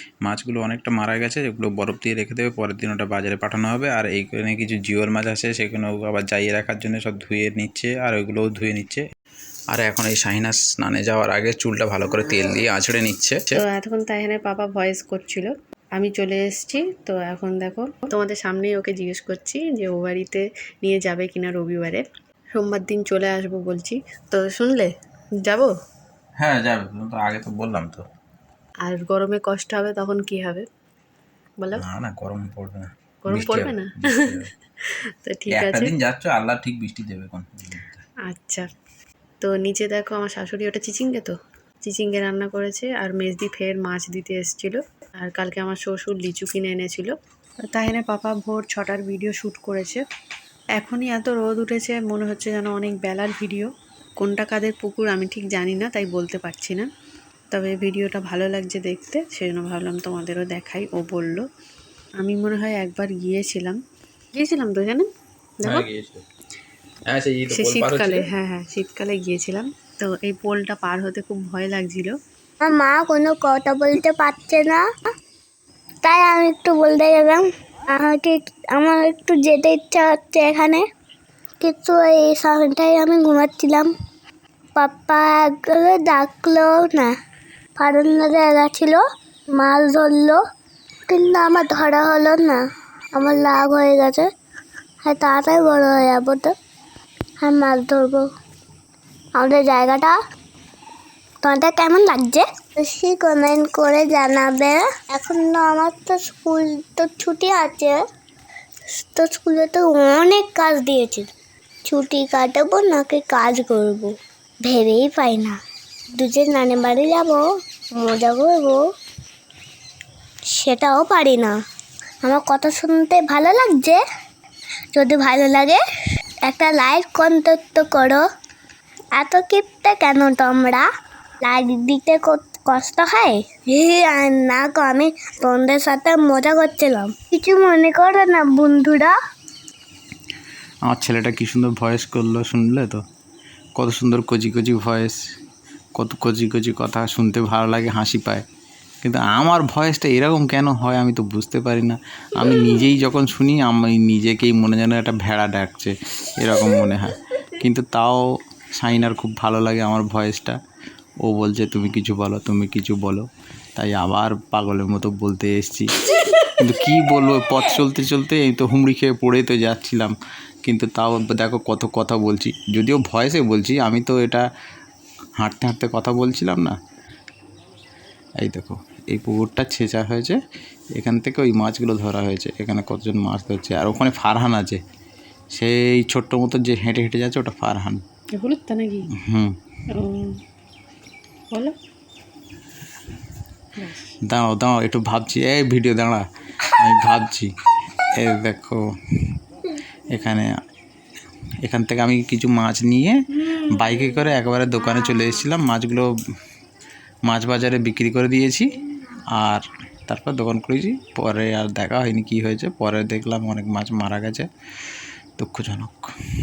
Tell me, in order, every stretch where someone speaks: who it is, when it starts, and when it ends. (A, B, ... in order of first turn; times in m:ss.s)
0:00.2-0:09.0 A
0:09.7-0:13.6 A
0:13.5-0:22.0 B
0:22.5-0:24.9 B
0:25.4-0:25.7 B
0:26.4-0:28.0 A
0:28.8-0:30.6 B
0:31.8-0:34.5 A
0:33.2-0:34.3 B
0:35.2-0:35.9 B
0:35.5-0:38.0 A
0:38.3-0:38.6 B
0:39.4-0:41.3 B
0:41.8-0:47.1 B
0:47.7-0:50.0 B
0:50.8-0:56.9 B
0:57.5-1:01.4 B
1:02.2-1:03.8 B
1:04.3-1:05.1 B
1:05.6-1:05.9 B
1:05.6-1:06.2 A
1:07.1-1:08.3 A
1:07.5-1:12.1 B
1:12.6-1:14.8 C
1:16.0-1:20.8 C
1:21.6-1:23.9 C
1:24.8-1:27.1 C
1:27.8-1:29.0 C
1:29.5-1:30.4 C
1:31.1-1:32.6 C
1:33.1-1:34.3 C
1:35.0-1:36.5 C
1:37.4-1:38.2 C
1:39.4-1:40.1 C
1:41.4-1:48.0 C
1:49.0-1:51.3 C
1:51.8-1:54.1 C
1:54.6-1:55.6 C
1:56.2-1:57.4 C
1:57.9-1:58.8 C
2:00.6-2:01.5 C
2:02.2-2:04.0 C
2:04.9-2:05.8 C
2:06.4-2:08.2 C
2:09.2-2:10.8 C
2:11.4-2:19.1 C
2:20.8-2:23.0 A
2:23.8-2:25.2 A
2:26.0-2:28.4 A
2:29.0-2:40.6 A
2:41.2-2:45.9 A
2:46.6-2:50.1 A
2:50.6-2:54.4 A
2:55.4-2:56.7 A
2:58.4-3:00.4 A
3:00.9-3:04.8 A
3:05.5-3:08.0 A
3:08.4-3:09.1 B
3:09.2-3:09.6 A
3:09.9-3:10.4 B
3:13.8-3:14.1 B
3:14.3-3:16.2 A
3:16.8-3:17.5 A
3:18.2-3:18.8 A
3:20.1-3:20.5 A
3:21.6-3:26.1 A
3:27.3-3:28.7 A
3:29.3-3:34.5 A
3:35.4-3:36.1 A